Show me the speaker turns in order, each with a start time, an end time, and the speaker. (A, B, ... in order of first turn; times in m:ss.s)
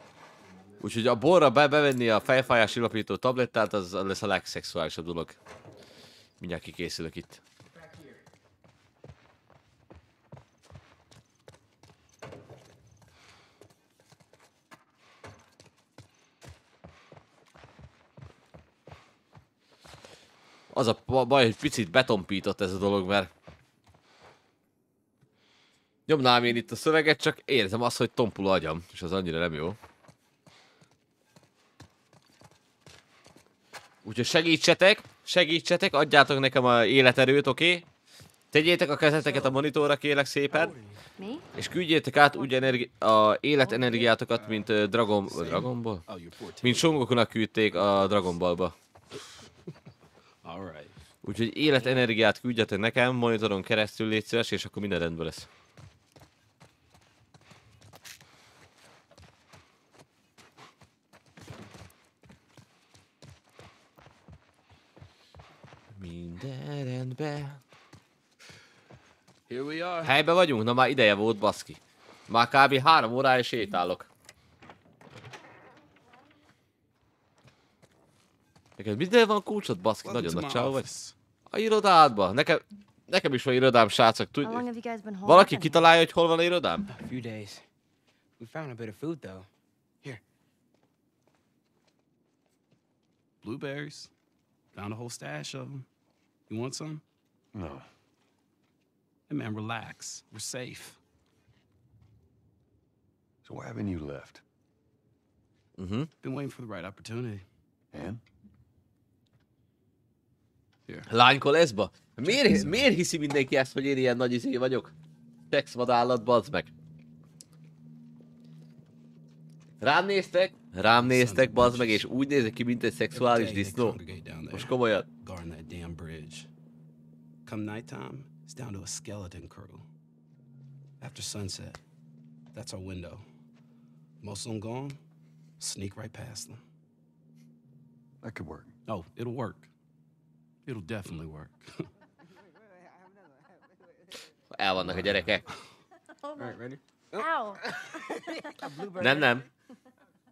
0:00.4-0:01.0 A
0:00.8-0:05.4 B
0:06.4-0:07.4 B
0:20.7-0:23.3 B
0:26.1-0:29.8 B
0:34.0-0:37.9 B
0:38.5-0:40.7 B
0:39.2-0:39.6 A
0:40.5-0:41.0 A
0:41.2-0:41.4 C
0:41.5-0:46.0 B
0:43.6-0:46.9 A
0:46.6-0:48.7 B
0:50.4-0:50.9 A
0:51.2-0:55.5 B
1:05.9-1:07.6 B
1:09.5-1:10.1 A
1:10.0-1:14.1 B
1:18.8-1:20.9 B
1:20.0-1:21.1 A
1:21.5-1:24.6 B
1:24.4-1:25.8 C
1:25.2-1:26.8 B
1:26.9-1:27.6 D
1:28.4-1:29.5 D
1:33.4-1:34.1 A
1:34.7-1:35.9 A
1:36.5-1:37.0 A
1:37.5-1:37.8 E
1:39.3-1:41.0 A
1:43.4-1:44.4 E
1:45.8-1:46.1 B
1:46.2-1:47.4 A
1:47.9-1:48.2 E
1:51.1-1:54.9 B
1:52.3-1:52.8 A
1:55.5-1:56.7 B
1:59.8-2:04.0 B
2:00.8-2:02.0 A
2:03.1-2:06.5 A
2:04.5-2:05.0 B
2:07.4-2:09.8 A
2:11.0-2:11.8 A
2:12.5-2:13.2 A
2:14.2-2:15.0 A
2:15.6-2:16.6 A
2:18.2-2:18.8 E
2:18.9-2:19.7 A
2:20.6-2:21.9 A
2:24.5-2:25.4 B
2:24.8-2:25.2 E
2:26.3-2:27.7 D
2:27.1-2:28.2 C
2:28.6-2:29.4 D
2:29.0-2:29.4 B